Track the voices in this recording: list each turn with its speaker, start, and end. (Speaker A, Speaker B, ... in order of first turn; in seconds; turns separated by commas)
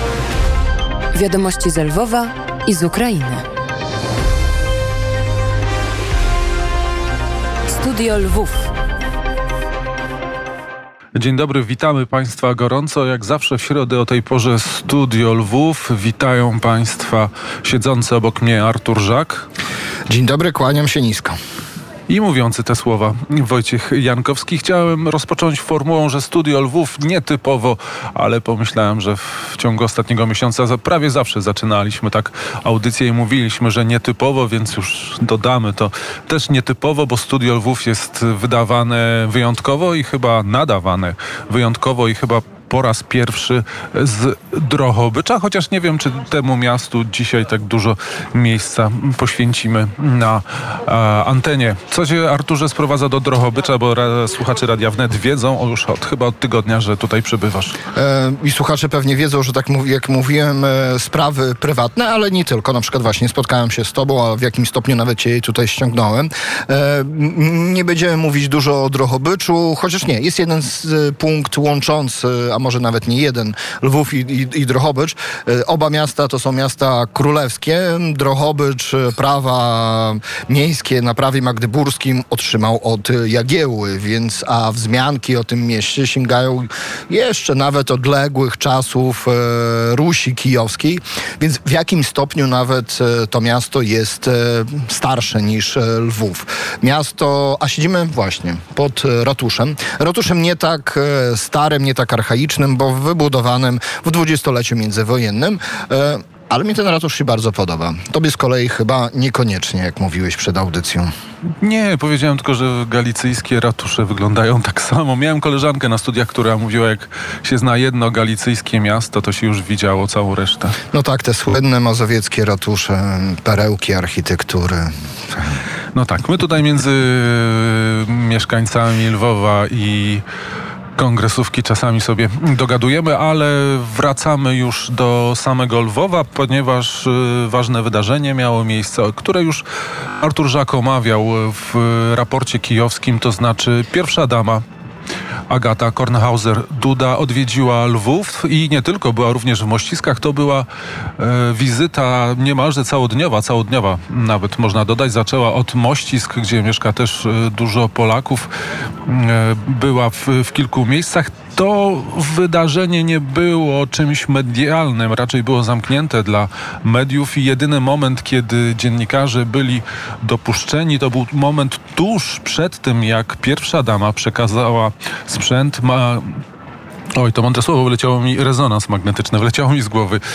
Speaker A: 1.1-3.5, Speaker A: 7.7-8.7, Speaker B: 11.2-19.5, Speaker C: 20.1-21.4, Speaker B: 22.1-57.8, Speaker C: 57.9-111.1, Speaker B: 111.6-120.8, Speaker C: 120.9-124.9, Speaker B: 125.9-130.2, Speaker B: 131.0-139.6, Speaker B: 140.2-144.6, Speaker B: 145.5-150.7, Speaker B: 151.2-158.5, Speaker B: 159.1-176.4, Speaker B: 177.1-180.2